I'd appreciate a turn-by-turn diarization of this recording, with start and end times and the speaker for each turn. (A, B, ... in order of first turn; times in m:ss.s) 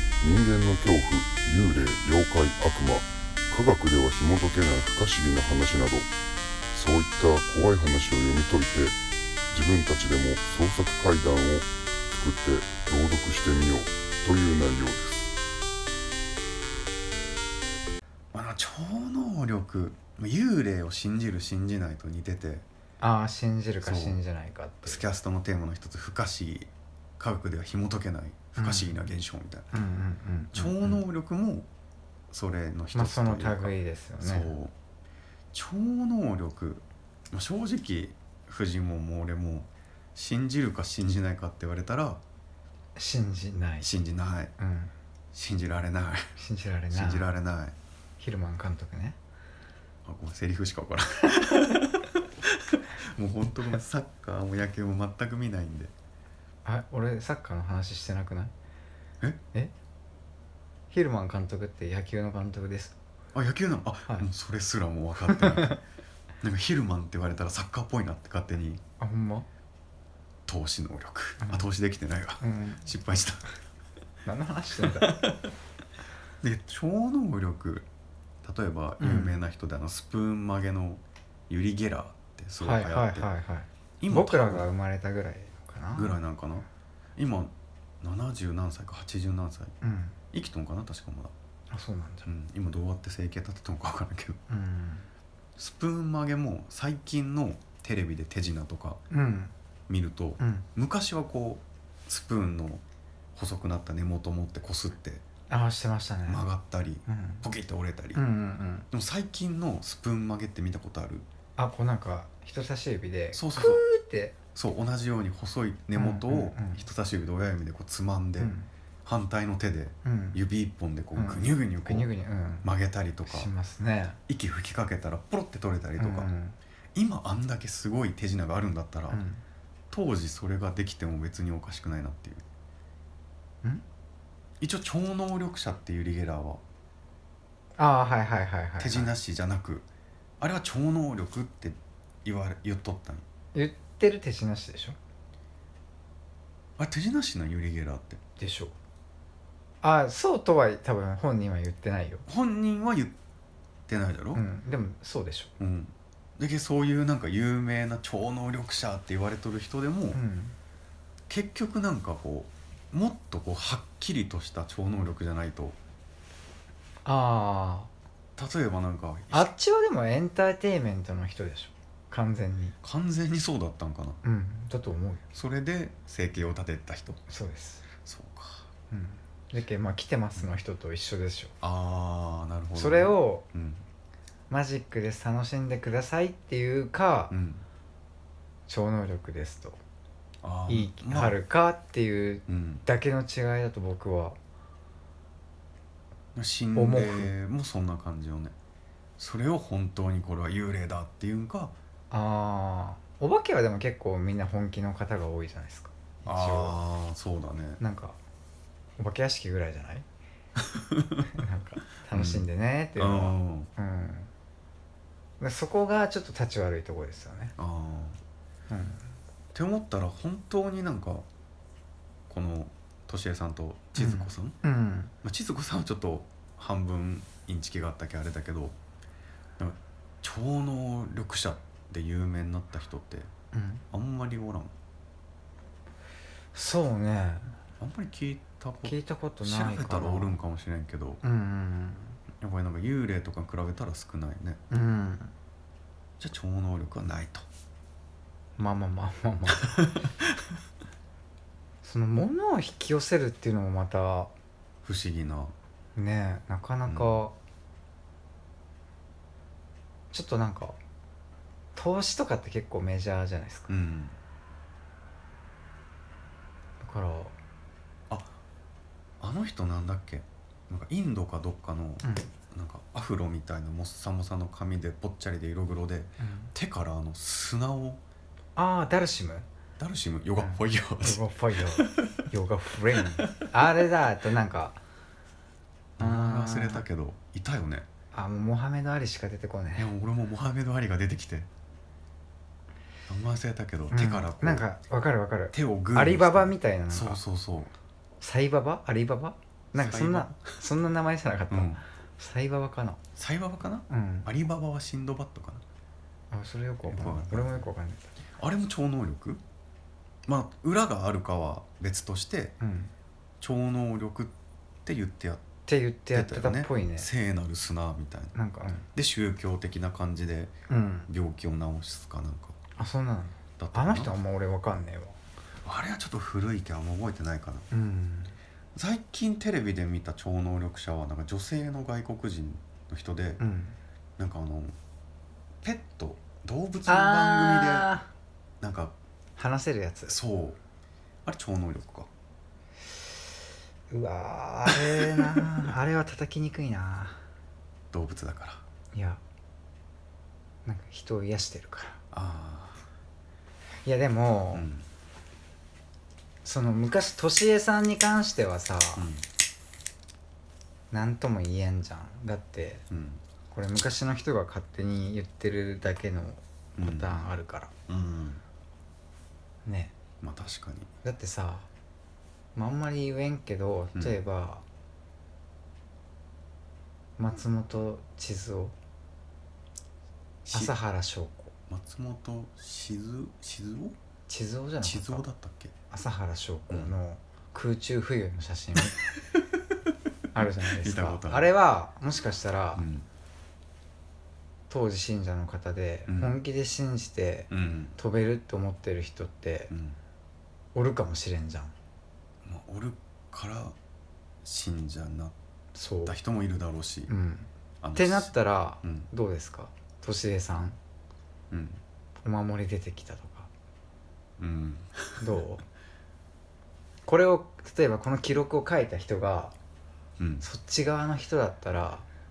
0:00.2-0:06.1 A
0:06.7-0:09.0 A
0:09.5-0:15.3 A
0:18.3-0:22.6 B
0:23.0-0:25.0 C
0:23.8-0:24.2 B
0:24.8-0:29.8 B
0:28.6-0:29.0 C
0:29.7-0:31.0 C
0:30.5-0:31.7 B
0:32.3-0:34.7 B
0:32.9-0:34.6 C
0:35.5-0:42.2 B
0:43.0-0:43.9 C
0:43.8-0:44.5 B
0:44.6-0:44.9 C
0:45.3-0:46.2 B
0:46.4-0:47.3 C
0:46.9-0:47.7 B
0:48.2-0:49.2 C
0:50.1-0:55.9 B
0:56.6-0:58.5 C
1:00.9-1:03.0 C
1:03.3-1:05.8 B
1:05.2-1:05.8 C
1:06.4-1:08.8 B
1:09.0-1:09.5 C
1:10.5-1:13.5 B
1:11.4-1:11.7 C
1:12.4-1:12.8 C
1:14.2-1:15.2 C
1:14.8-1:15.5 B
1:16.4-1:17.9 B
1:18.4-1:23.3 B
1:19.0-1:19.4 C
1:22.6-1:26.2 C
1:24.0-1:24.7 B
1:25.9-1:29.7 B
1:29.8-1:30.2 C
1:30.3-1:31.3 B
1:31.7-1:32.3 C
1:32.3-1:34.4 B
1:34.5-1:35.1 C
1:35.6-1:39.0 B
1:39.1-1:39.5 C
1:39.9-1:42.8 B
1:40.4-1:40.7 C
1:43.4-1:45.2 B
1:45.5-1:46.4 C
1:46.3-1:48.2 B
1:47.1-1:47.4 C
1:48.1-1:48.9 C
1:48.9-1:51.3 B
1:51.6-1:54.4 C
1:53.3-1:53.8 B
1:54.5-1:58.5 B
1:55.9-1:56.9 C
1:58.4-1:58.7 C
1:59.0-2:02.1 B
2:00.0-2:00.4 C
2:01.1-2:04.2 C
2:02.6-2:03.5 B
2:04.3-2:06.3 B
2:06.0-2:06.6 C
2:07.0-2:09.2 B
2:09.1-2:09.4 C
2:09.9-2:12.4 B
2:14.6-2:16.6 B
2:17.8-2:19.2 C
2:18.8-2:19.9 B
2:20.4-2:23.2 B
2:23.5-2:25.0 C
2:26.8-2:28.2 B
2:28.4-2:28.8 C
2:29.8-2:32.3 C
2:32.3-2:33.2 B
2:33.9-2:34.4 B
2:34.3-2:35.5 C
2:35.6-2:40.2 B
2:40.1-2:40.6 C
2:41.3-2:45.8 B
2:47.0-2:47.9 C
2:48.4-2:49.5 B
2:49.3-2:52.8 C
2:52.8-2:54.2 B
2:54.2-2:55.2 C
2:55.3-2:57.2 B
2:57.3-2:57.8 C
2:58.0-2:58.7 B
2:58.9-3:01.6 C
3:01.6-3:03.8 B
3:02.8-3:03.4 C
3:04.5-3:07.3 C
3:07.3-3:07.6 B
3:08.7-3:09.8 C
3:10.4-3:11.4 B
3:10.7-3:14.4 C
3:12.5-3:12.8 B
3:16.4-3:18.5 B
3:16.8-3:17.3 C
3:19.2-3:21.8 B
3:22.1-3:26.8 C
3:26.3-3:27.8 B
3:27.8-3:28.2 C
3:29.0-3:30.1 C
3:30.6-3:31.3 B
3:31.3-3:34.3 C
3:32.1-3:33.7 B
3:35.4-3:37.6 C
3:37.6-3:38.2 B
3:38.7-3:39.2 C
3:39.5-3:41.3 B
3:42.3-3:44.6 B
3:44.0-3:45.1 C
3:45.2-3:48.8 B
3:49.6-3:53.3 B
3:53.5-3:53.8 C
3:53.9-3:54.7 B
3:56.5-3:57.6 C
3:57.8-4:01.2 B
3:58.8-4:00.4 C
4:01.2-4:02.2 C
4:02.4-4:04.6 B
4:04.7-4:05.3 C
4:06.2-4:07.4 B
4:08.6-4:09.9 C
4:11.8-4:14.3 C
4:14.8-4:15.6 B
4:16.0-4:17.4 C
4:16.9-4:17.2 B
4:20.1-4:20.8 C
4:21.8-4:23.8 C
4:23.7-4:24.2 B
4:26.8-4:27.4 C
4:28.1-4:28.4 B
4:29.2-4:38.0 B
4:32.0-4:32.3 C
4:36.2-4:36.5 C
4:38.6-4:39.5 C
4:39.8-4:42.2 B
4:40.4-4:44.8 C
4:42.9-4:43.9 B
4:46.0-4:47.9 B
4:46.0-4:46.9 C
4:48.1-4:49.9 C
4:49.8-4:51.5 B
4:53.1-4:54.7 B
4:53.9-4:57.2 C
4:55.5-4:57.8 B
4:58.2-5:03.0 C
4:59.8-5:00.7 B
5:01.5-5:01.8 B
5:03.2-5:05.6 B
5:03.9-5:04.3 C
5:06.3-5:08.1 C
5:06.9-5:07.7 B
5:08.4-5:09.4 B
5:10.3-5:12.6 B
5:12.6-5:12.9 C
5:13.4-5:15.4 B
5:15.7-5:17.1 C
5:16.1-5:18.4 B
5:18.3-5:18.9 C
5:18.9-5:20.5 B
5:20.7-5:21.1 C
5:21.1-5:22.6 B
5:22.8-5:25.2 C
5:23.6-5:24.2 B
5:25.6-5:27.7 B
5:27.7-5:28.4 C
5:28.8-5:33.4 B
5:33.4-5:33.8 C
5:34.2-5:34.8 B
5:35.6-5:37.9 B
5:36.9-5:38.1 C
5:38.6-5:39.0 B
5:39.4-5:40.2 C
5:40.1-5:40.6 B
5:41.2-5:42.1 B
5:43.9-5:47.2 C
5:44.7-5:45.7 B
5:47.9-5:48.6 B
5:48.9-5:49.2 C
5:50.6-5:52.0 C
5:52.1-5:52.8 B
5:53.8-5:54.7 C
5:54.5-5:54.9 B
5:56.4-5:59.1 C
5:59.0-5:59.3 B
6:00.9-6:02.8 C
6:02.9-6:03.2 B
6:03.5-6:07.7 C
6:06.8-6:07.3 B
6:07.9-6:08.4 B
6:09.6-6:09.9 C
6:10.2-6:10.9 B
6:11.0-6:11.7 C
6:12.6-6:14.6 C
6:17.2-6:18.8 C
6:20.4-6:20.8 B
6:20.5-6:21.5 C
6:21.7-6:24.0 B
6:24.3-6:25.3 C
6:24.8-6:25.7 B
6:25.9-6:29.0 C
6:28.8-6:29.4 B
6:30.3-6:31.5 B
6:30.3-6:32.9 C
6:32.8-6:33.1 B
6:34.7-6:39.7 C
6:36.1-6:36.4 B
6:37.5-6:38.0 B
6:39.7-6:40.0 B
6:40.7-6:41.7 C
6:42.4-6:43.8 B
6:44.4-6:45.4 B
6:45.7-6:46.2 C
6:46.0-6:47.1 B
6:47.1-6:50.8 C
6:47.8-6:49.1 B
6:51.5-6:51.8 B
6:52.2-6:53.5 C
6:54.4-6:55.3 B
6:55.2-6:55.6 C
6:57.0-6:59.6 C
7:00.2-7:00.5 B
7:00.4-7:02.1 C